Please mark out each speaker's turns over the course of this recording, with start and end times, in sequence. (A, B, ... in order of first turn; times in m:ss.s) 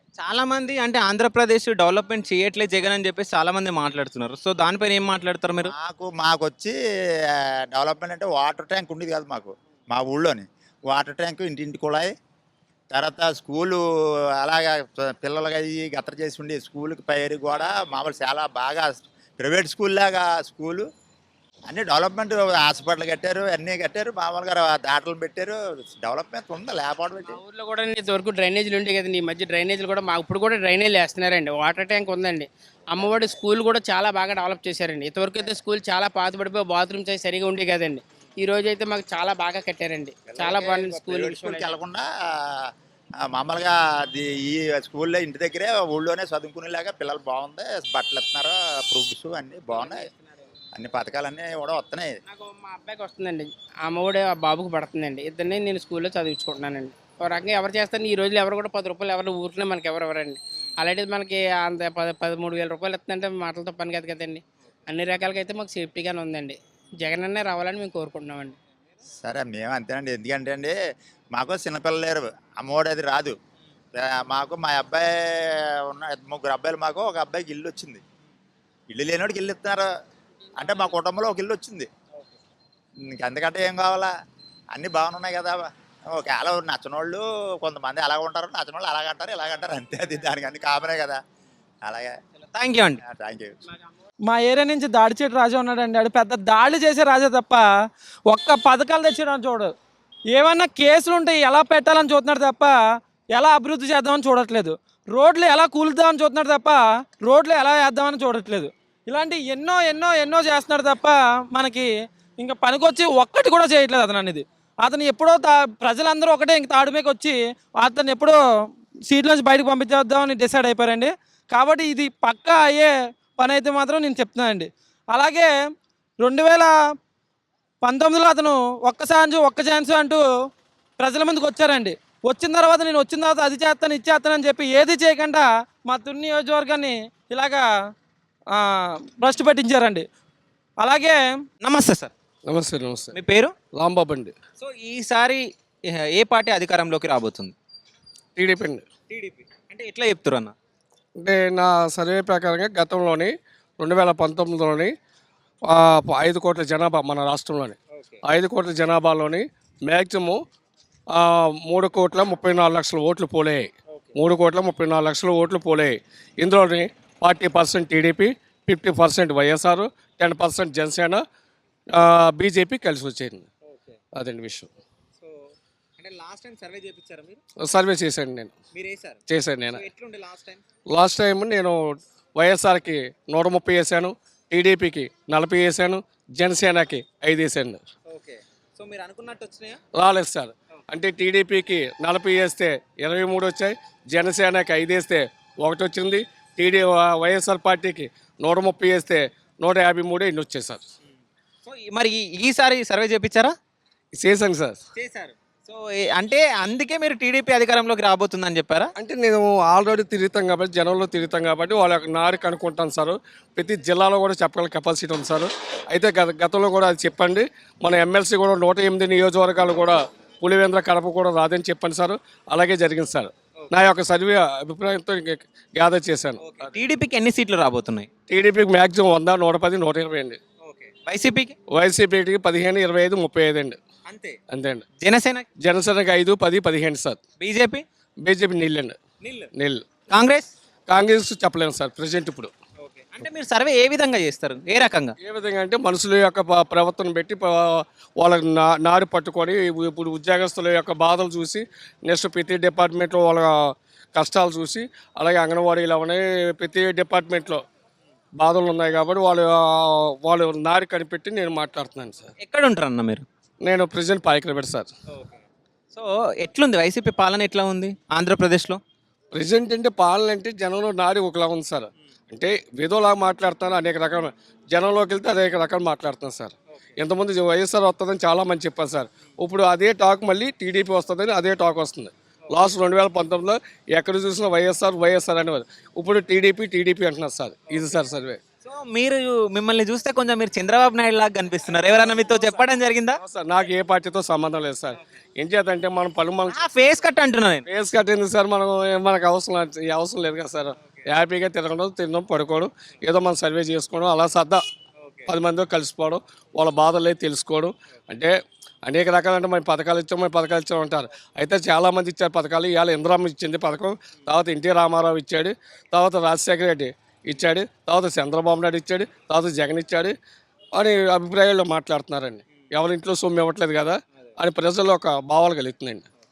0:00.2-0:05.7 A
0:05.6-0:06.8 B
0:07.4-0:12.1 B
0:12.9-0:13.8 B
0:14.4-0:20.9 B
0:21.7-0:27.4 B
0:27.2-0:41.7 C
0:40.3-0:42.7 B
0:43.2-0:50.1 B
0:50.8-0:52.1 B
0:52.3-1:08.6 C
1:09.2-1:10.8 B
1:11.3-1:13.4 B
1:14.0-1:18.0 B
1:18.9-1:19.9 B
1:20.6-1:21.9 B
1:23.1-1:24.1 B
1:24.7-1:31.2 B
1:31.8-1:32.1 B
1:32.5-1:33.0 A
1:33.0-1:33.6 B
1:34.3-1:37.6 D
1:38.3-1:39.7 D
1:40.3-1:58.4 D
1:59.1-2:05.5 D
2:06.2-2:06.8 D
2:07.8-2:10.2 D
2:11.0-2:17.7 D
2:18.5-2:20.1 D
2:20.8-2:21.3 D
2:21.6-2:22.1 A
2:22.5-2:23.2 E
2:23.2-2:23.5 A
2:23.8-2:24.3 E
2:24.6-2:27.6 A
2:28.4-2:28.8 E
2:29.1-2:30.5 A
2:31.2-2:34.9 E
2:35.6-2:40.4 E
2:41.1-2:51.2 E
2:51.9-2:53.5 E
2:54.2-2:54.7 E
2:56.0-2:57.4 A
2:57.6-2:58.5 E
2:58.8-2:59.2 A
2:59.3-2:59.8 E
2:59.7-3:00.6 A
3:00.9-3:01.8 E
3:02.4-3:07.8 E
3:08.1-3:09.8 A
3:10.0-3:20.8 E
3:21.6-3:23.6 A
3:24.2-3:24.8 E
3:25.0-3:28.9 A
3:29.0-3:46.5 E
3:46.4-3:48.1 A
3:48.3-3:50.4 E
3:50.6-3:51.6 A
3:51.7-3:53.8 E
3:54.1-3:54.4 A
3:54.5-3:54.8 E
3:55.0-3:55.5 A
3:55.6-3:57.2 E
3:57.4-3:57.8 A
3:58.2-3:59.0 E
3:59.2-3:59.5 A
3:59.6-3:59.8 E
4:00.1-4:00.5 A
4:00.9-4:02.5 E
4:02.8-4:05.2 A
4:05.2-4:17.6 E
4:18.4-4:22.3 E
4:22.4-4:23.3 A
4:23.6-4:24.9 E
4:25.9-4:28.8 A
4:29.4-4:48.4 E
4:48.6-4:53.2 A
4:53.2-4:56.6 E
4:56.5-4:57.6 A
4:57.7-5:04.6 E
5:05.3-5:20.2 E
5:20.8-5:26.1 E